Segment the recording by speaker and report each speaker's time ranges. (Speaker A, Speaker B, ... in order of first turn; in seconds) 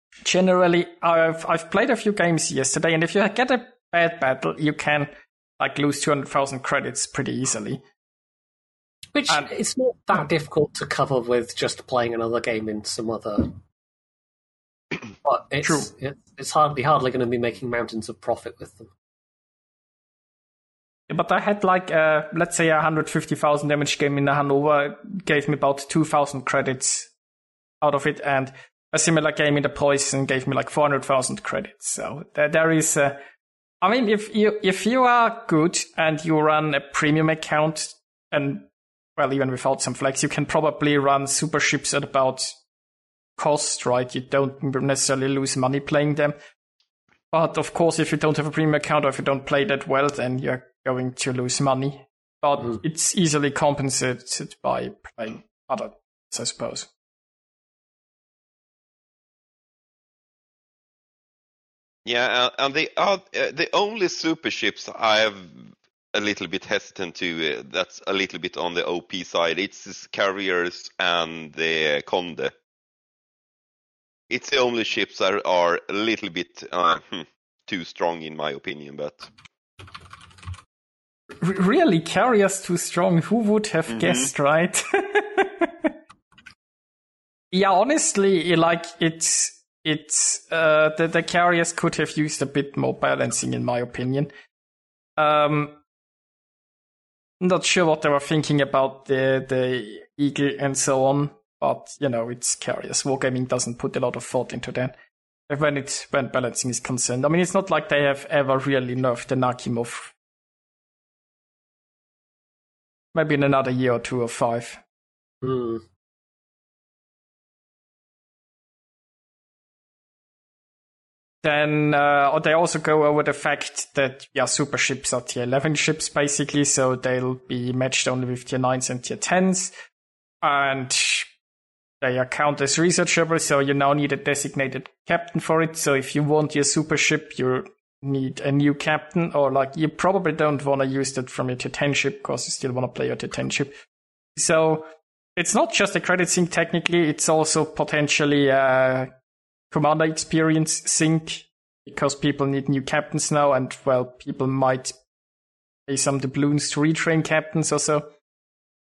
Speaker A: 0.2-7.8, 15.6-15.9, 21.1-27.1, 27.8-33.2, 33.8-42.6, 43.4-46.4, 47.3-56.9, 81.4-85.9, 87.5-94.3, 95.2-95.8, 97.4-104.9, 105.5-110.1, 113.1-114.8, 121.4-129.7, 130.4-131.3, 132.0-143.7, 144.4-149.1, 149.7-154.9, 155.9-158.1
Speaker B: 9.1-13.6, 15.2-18.9, 115.4-115.8
Speaker C: 62.0-72.5, 74.3-79.3, 83.9-84.3